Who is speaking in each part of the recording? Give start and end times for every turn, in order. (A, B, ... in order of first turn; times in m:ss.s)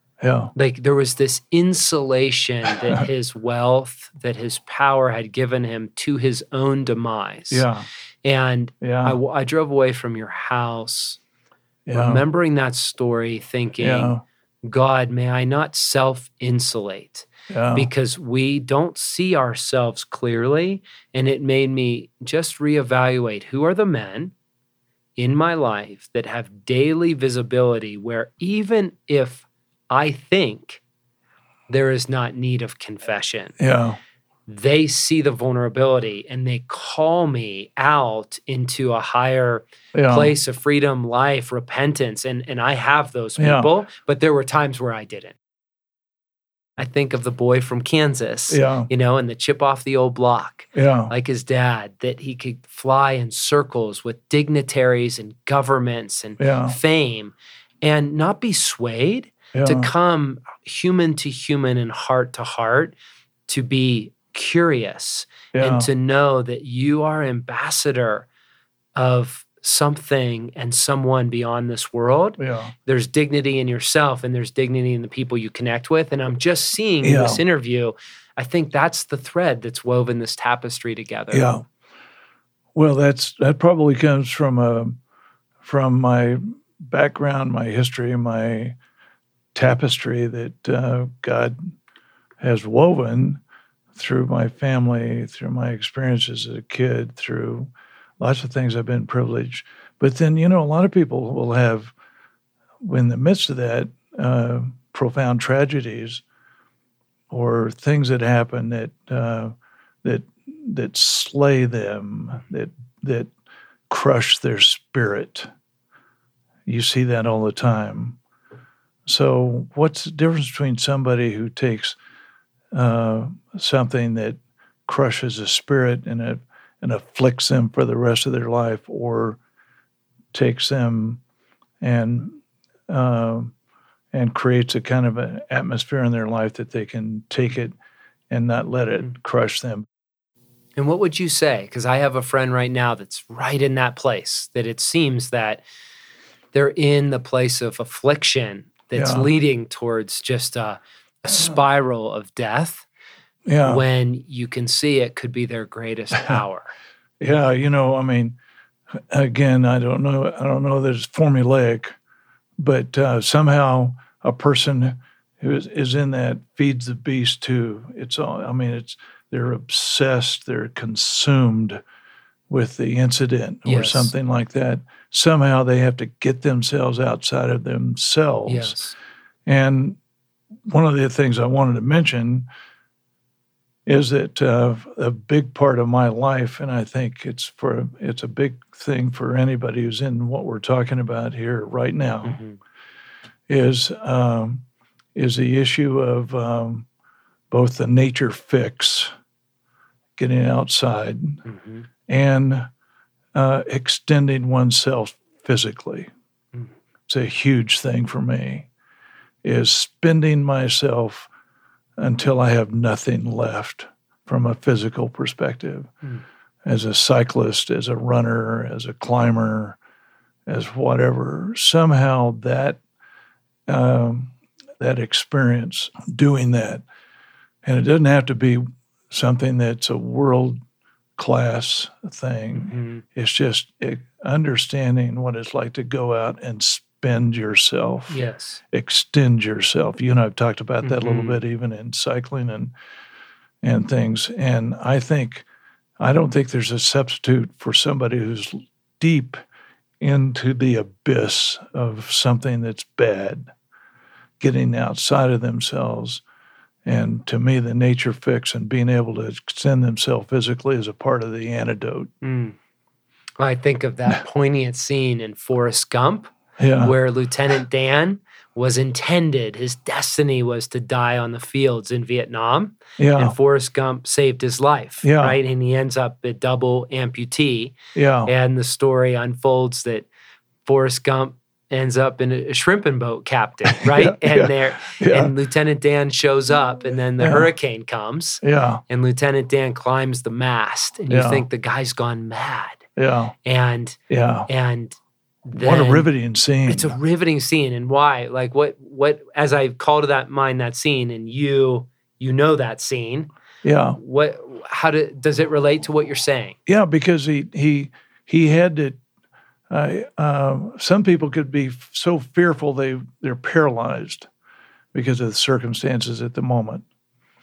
0:00.2-0:00.5 A
0:00.5-0:07.6 B
0:07.5-0:07.9 A
0:08.2-0:11.2 B
0:08.8-0:09.2 A
0:11.9-0:12.2 A
0:11.9-0:14.1 B
0:13.8-0:14.2 A
0:14.6-0:24.3 B
0:17.5-0:17.9 A
0:25.2-0:30.8 B
0:31.7-0:33.6 B
0:33.6-0:34.0 A
0:34.5-0:45.4 B
0:39.9-0:40.3 A
0:43.4-0:43.7 A
0:46.8-1:02.9 B
0:48.5-0:48.9 A
0:50.7-0:51.1 A
0:56.4-0:56.8 A
0:59.5-0:59.9 A
1:03.5-1:08.3 B
1:05.5-1:05.9 A
1:08.9-1:21.4 B
1:12.4-1:12.7 A
1:17.0-1:17.4 A
1:21.3-1:21.6 A
1:22.7-1:25.0 A
1:25.6-1:28.8 A
1:29.5-1:31.6 A
1:32.4-1:33.4 A
1:34.0-1:41.9 A
1:42.8-1:46.2 A
1:47.3-1:53.3 A
1:53.9-1:55.5 A
1:56.6-1:58.2 A
1:59.0-2:02.0 A
2:02.7-2:09.4 A
2:10.3-2:11.2 A
2:11.8-2:12.4 A
2:12.9-2:13.5 A
2:14.1-2:17.7 A
2:18.3-2:19.8 A
2:20.8-2:25.6 B
2:26.5-2:32.8 B
2:28.9-2:29.3 A
2:31.3-2:31.6 A
2:33.5-2:33.8 A
2:33.6-2:36.7 B
2:37.2-2:38.4 A
2:39.1-2:42.0 A
2:42.6-2:51.8 A
2:52.5-2:58.8 A
2:53.6-2:54.1 B
2:58.5-2:58.9 B
2:59.4-3:00.0 A
3:00.7-3:02.5 A
3:03.8-3:12.4 A
3:12.2-3:12.6 B
3:13.5-3:14.6 A
3:15.1-3:16.9 A
3:17.5-3:19.1 A
3:20.2-3:21.4 A
3:21.4-3:21.9 B
3:22.1-3:22.7 A
3:23.3-3:26.1 A
3:27.1-3:28.7 A
3:29.4-3:31.3 A
3:32.0-3:35.9 A
3:36.6-3:39.8 A
3:40.5-3:42.8 A
3:43.7-3:46.8 A
3:47.6-3:50.6 A
3:51.2-3:58.2 A
3:52.6-3:53.0 B
3:58.1-3:58.6 B
3:58.7-4:02.7 A
4:00.8-4:01.4 B
4:03.6-4:05.4 A
4:06.0-4:09.4 A
4:10.0-4:13.5 A
4:14.4-4:16.2 A
4:16.8-4:22.1 A
4:22.2-4:22.6 B
4:23.4-4:40.1 B
4:26.6-4:27.0 A
4:33.0-4:33.4 A
4:35.0-4:35.4 A
4:37.9-4:38.3 A
4:40.6-4:52.8 B
4:43.7-4:45.3 A
4:47.2-4:47.5 A
4:48.4-4:48.8 A
4:51.1-4:51.4 A
4:53.0-4:53.3 A
4:53.4-4:55.0 B
4:54.1-4:54.5 A
4:55.5-4:56.1 B
4:55.5-4:57.0 A
4:56.7-5:03.3 B
5:03.6-5:04.0 A
5:04.0-5:06.6 B
5:06.6-5:09.0 A
5:09.7-5:14.3 A
5:14.9-5:16.8 A